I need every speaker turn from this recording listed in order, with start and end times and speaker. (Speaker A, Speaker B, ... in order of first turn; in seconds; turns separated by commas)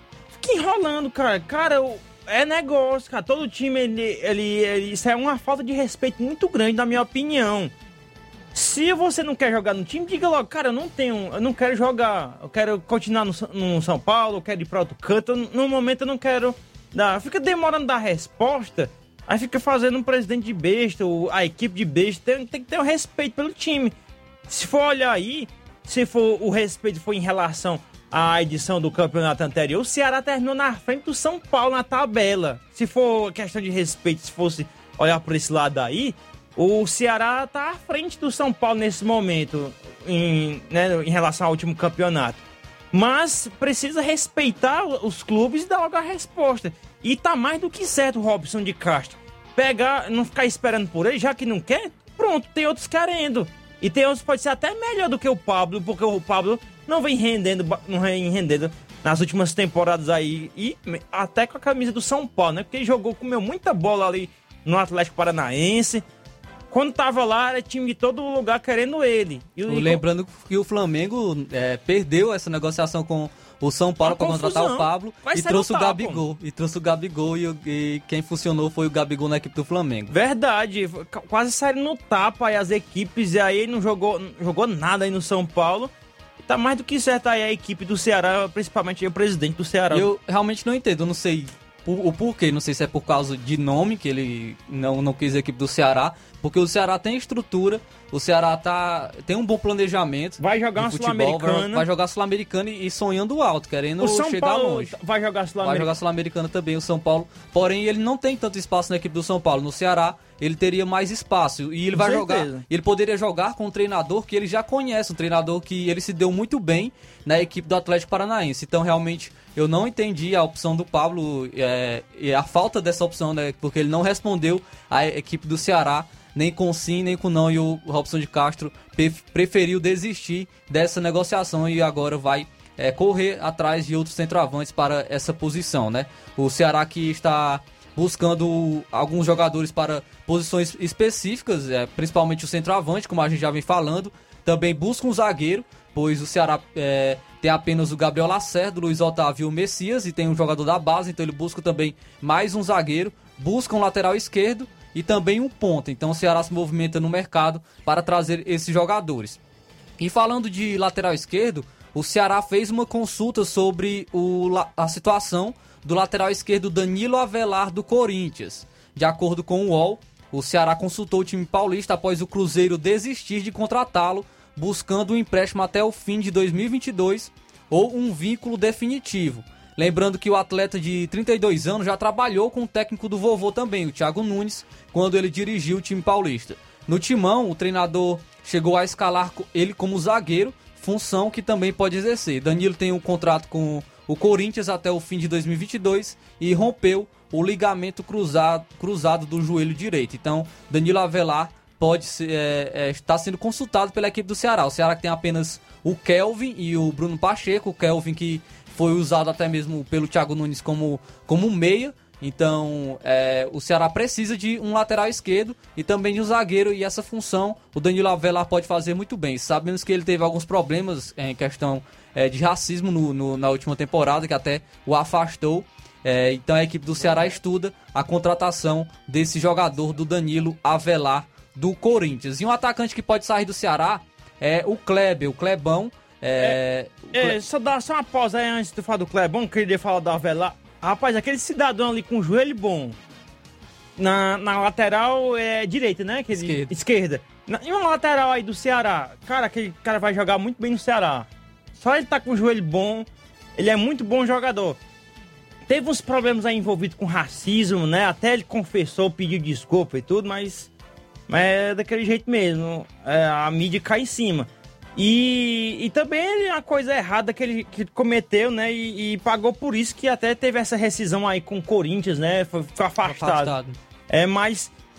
Speaker A: 0.4-7.7, Speaker A: 8.5-23.9, Speaker A: 24.5-42.4, Speaker A: 42.9-66.0, Speaker A: 66.7-70.0, Speaker B: 69.7-80.1, Speaker A: 74.0-76.2, Speaker A: 80.1-85.9, Speaker A: 86.4-90.1, Speaker B: 89.9-104.9, Speaker A: 100.4-101.8, Speaker A: 104.0-105.9, Speaker B: 105.6-159.4, Speaker A: 111.9-112.6, Speaker B: 160.0-237.4, Speaker A: 237.1-243.0, Speaker A: 244.0-254.8, Speaker B: 246.3-246.7, Speaker A: 255.7-260.7, Speaker A: 261.3-273.5, Speaker B: 273.0-273.8, Speaker A: 274.1-274.7